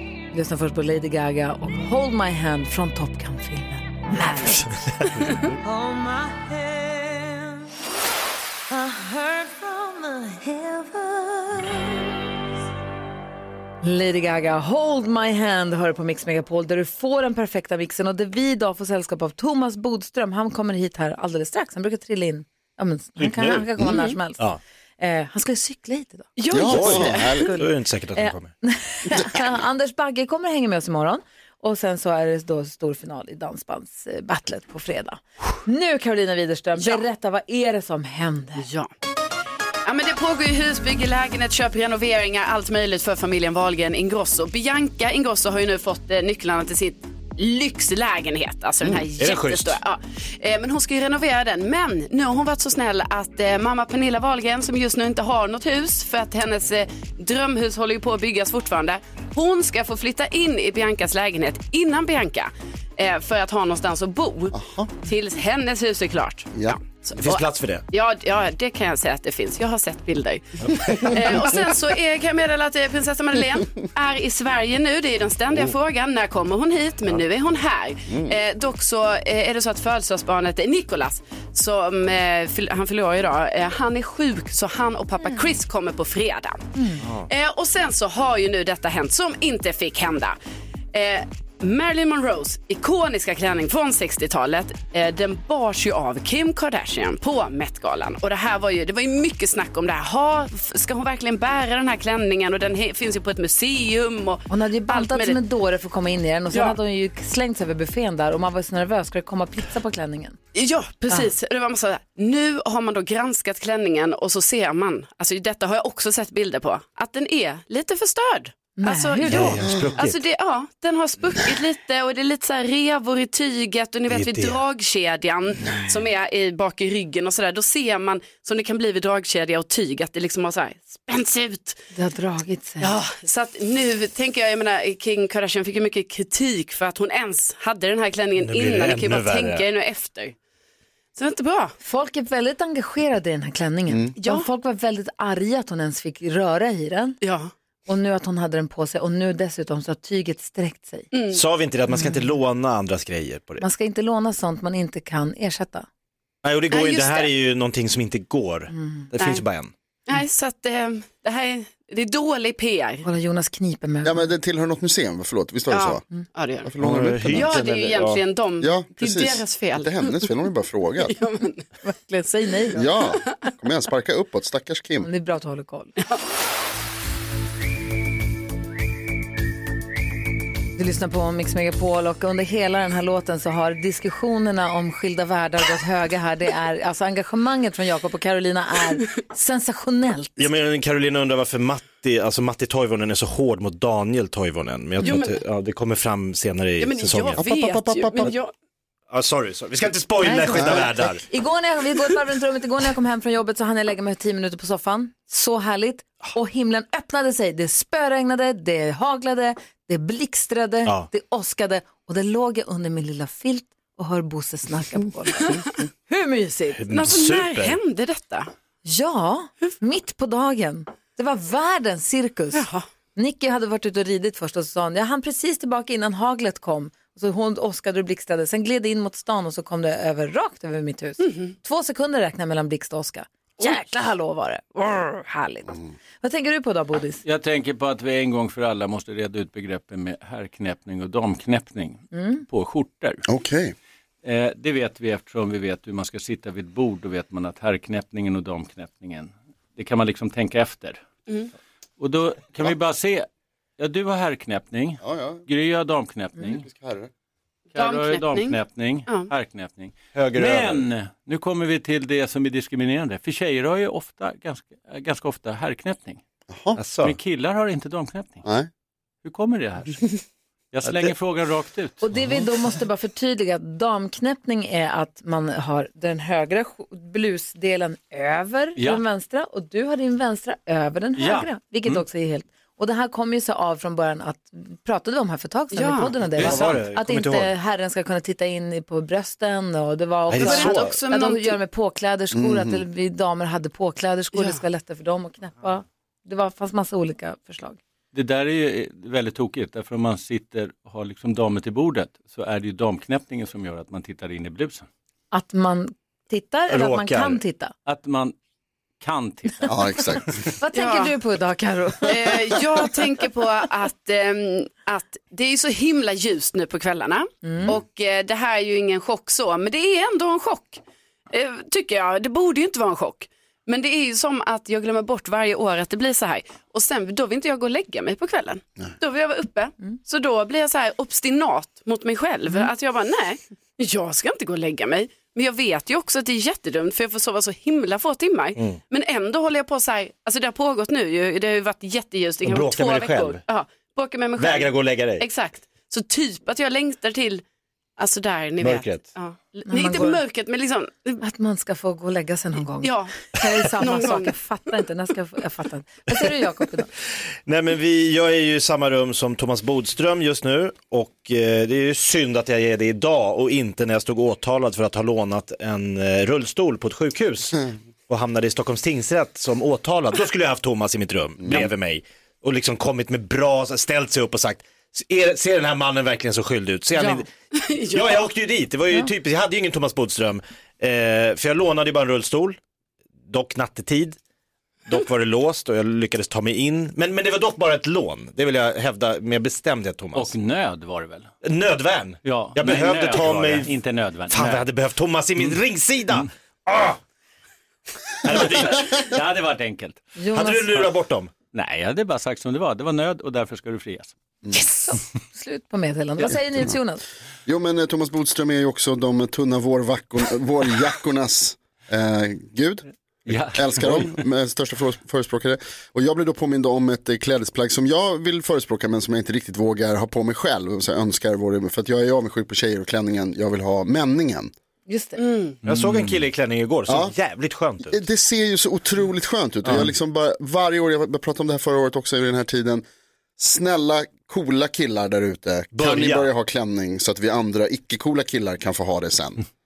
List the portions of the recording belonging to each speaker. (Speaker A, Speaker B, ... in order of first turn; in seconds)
Speaker A: 0.3-4.9, 8.8-9.0, 13.8-24.4, 25.0-38.7, 104.5-110.4, 118.8-119.6, 131.9-133.0, 141.8-147.2, 147.9-151.1, 151.9-152.3, 153.6-155.9, 158.7-159.1, 163.0-164.3, 171.8-172.9, 175.0-175.9, 180.8-190.4, 200.2-216.8, 218.8-222.7, 223.2-237.2, 242.1-242.4, 272.0-297.8, 305.3-307.7, 310.6-312.4, 317.4-317.7, 349.7-350.2, 351.2-356.9, 400.2-400.9, 404.5-407.0, 424.9-425.2
Speaker B: 5.1-5.4, 23.2-23.8, 26.7-28.5, 49.2-49.8, 67.2-67.8, 70.7-71.2, 119.3-120.2, 124.1-124.6, 138.4-139.6, 151.3-153.6, 156.4-159.7, 166.8-168.2, 190.4-197.4, 199.1-201.2, 216.8-217.8, 260.1-260.9, 266.8-267.2, 270.9-271.1, 286.4-287.5, 290.3-290.9, 306.7-307.4, 342.4-343.4, 344.4-345.2, 348.6-349.1, 357.5-377.3, 377.9-382.6, 383.3-384.2, 384.9-390.3, 391.4-397.0, 398.2-399.1, 400.3-401.3, 425.6-428.0, 429.6-429.9, 435.7-436.3
Speaker C: 5.7-7.3, 9.6-10.0
Speaker D: 23.9-24.2, 26.4-27.4, 36.8-37.0, 38.6-38.9, 39.9-86.7, 87.3-90.4, 90.9-105.4, 110.5-131.8, 132.8-140.3, 141.2-141.8, 144.2-144.5, 147.2-147.5, 151.1-151.4, 156.7-157.3, 159.2-159.4, 160.1-163.1, 165.7-166.7, 167.2-170.3, 171.0-171.6, 195.0-195.4, 196.8-198.5, 216.9-218.5, 222.5-222.8, 231.2-231.5, 257.8-259.3, 285.7-286.1, 290.4-291.6, 294.3-294.6, 310.7-311.1, 312.1-347.4, 348.0-351.2, 352.8-354.3, 377.5-378.3, 425.2-425.6
Speaker E: 26.5-27.6, 64.5-64.9, 78.1-78.4, 119.7-120.0, 143.9-144.1, 164.0-166.0, 166.6-167.7, 168.6-171.2, 172.8-175.1, 197.4-198.4, 200.5-200.9, 243.3-243.7, 255.0-255.4, 256.4-257.1, 266.5-266.8, 292.3-292.8, 309.7-310.5, 407.5-412.9, 413.5-424.5, 426.9-427.1, 427.9-432.9, 433.4-439.4
Speaker F: 237.2-243.2, 244.2-251.0, 252.0-253.3, 253.8-256.7, 257.7-266.2, 267.0-268.4, 269.2-272.4, 278.8-279.0, 281.2-282.0, 286.4-286.8, 298.1-304.9, 307.9-308.4, 309.0-310.2, 390.1-391.3, 392.2-394.7, 398.7-400.1, 401.5-404.1, 413.3-414.3, 425.7-426.1